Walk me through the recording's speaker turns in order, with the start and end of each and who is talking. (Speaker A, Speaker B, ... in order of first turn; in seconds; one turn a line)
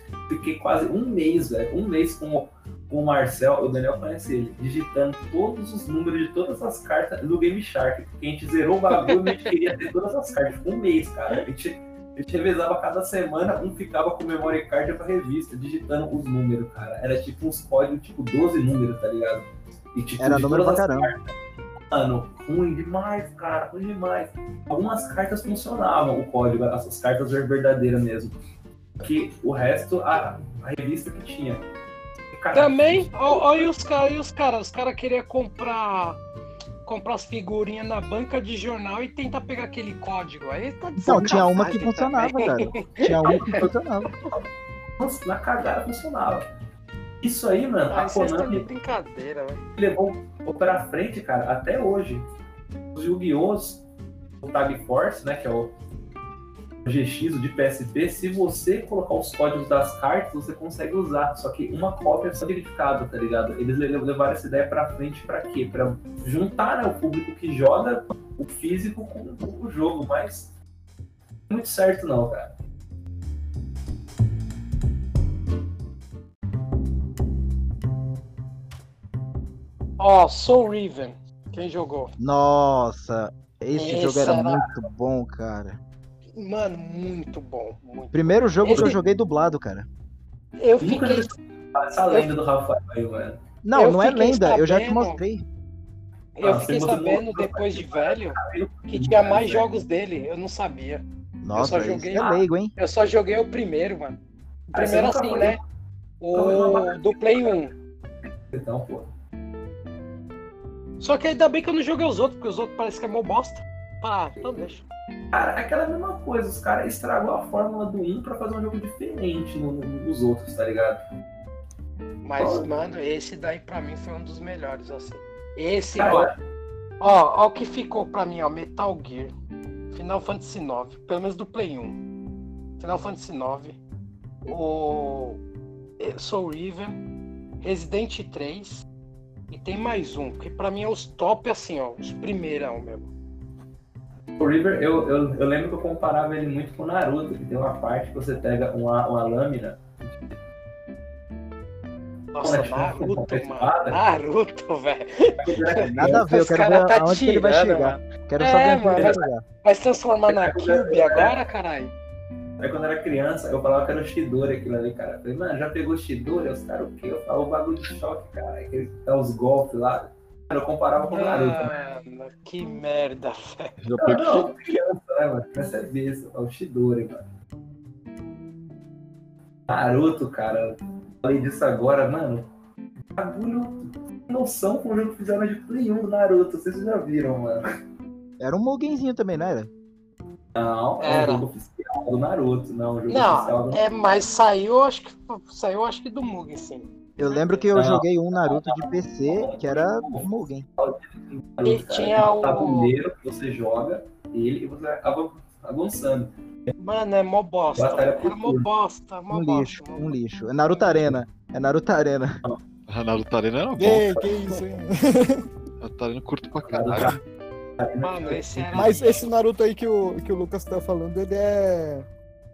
Speaker A: 0.3-21.2
Speaker B: 9.0-9.5
Speaker C: 20.2-21.1
Speaker A: 21.9-28.4
Speaker A: 29.0-31.6
Speaker A: 32.3-33.7
Speaker B: 32.5-36.2
Speaker B: 36.9-43.6
Speaker C: 41.0-44.1
Speaker A: 45.0-46.5
Speaker A: 47.2-48.7
Speaker B: 47.9-49.6
Speaker A: 49.8-52.2
Speaker A: 53.0-53.8
Speaker A: 54.4-55.7
Speaker A: 56.9-70.5
Speaker A: 71.5-72.6
Speaker B: 80.0-82.1
Speaker C: 82.2-85.8
Speaker B: 83.7-84.7
Speaker B: 86.4-89.0
Speaker C: 88.1-89.9
Speaker B: 90.6-91.3
Speaker A: 90.8-93.4
Speaker C: 93.6-95.4
Speaker B: 93.7-95.2
Speaker B: 96.4-101.0
Speaker A: 96.4-99.7
Speaker C: 101.4-102.7
Speaker B: 101.5-104.2
Speaker B: 104.7-105.6
Speaker A: 104.7-105.6
Speaker B: 106.2-107.7
Speaker A: 106.3-107.5
Speaker A: 108.2-109.1
Speaker B: 111.0-114.8
Speaker A: 115.3-121.0
Speaker B: 122.2-126.3
Speaker A: 122.4-122.8
Speaker A: 126.0-126.3
Speaker B: 127.0-129.3
Speaker B: 129.9-132.0
Speaker B: 132.8-133.8
Speaker B: 134.5-135.4
Speaker B: 136.0-137.0
Speaker B: 137.6-138.9
Speaker B: 139.5-143.1
Speaker A: 144.4-150.4
Speaker B: 152.3-161.9
Speaker A: 152.4-154.1
Speaker A: 155.4-156.3
Speaker C: 155.8-159.4
Speaker A: 159.0-159.2
Speaker A: 160.3-161.3
Speaker A: 162.6-171.7
Speaker B: 171.0-173.8
Speaker D: 173.8-174.5
Speaker A: 174.0-177.3
Speaker A: 179.7-182.5
Speaker A: 183.2-187.7
Speaker C: 188.4-189.7
Speaker A: 190.6-193.8
Speaker B: 191.0-191.5
Speaker B: 193.1-197.7
Speaker C: 197.2-200.7
Speaker A: 197.7-206.3
Speaker B: 201.6-202.9
Speaker B: 206.8-210.2
Speaker A: 207.8-208.7
Speaker C: 209.3-212.4
Speaker B: 210.7-211.1
Speaker D: 212.9-214.6
Speaker E: 213.8-215.5
Speaker D: 215.8-217.2
Speaker A: 216.6-217.2
Speaker A: 217.8-219.0
Speaker B: 218.0-219.3
Speaker E: 218.7-222.1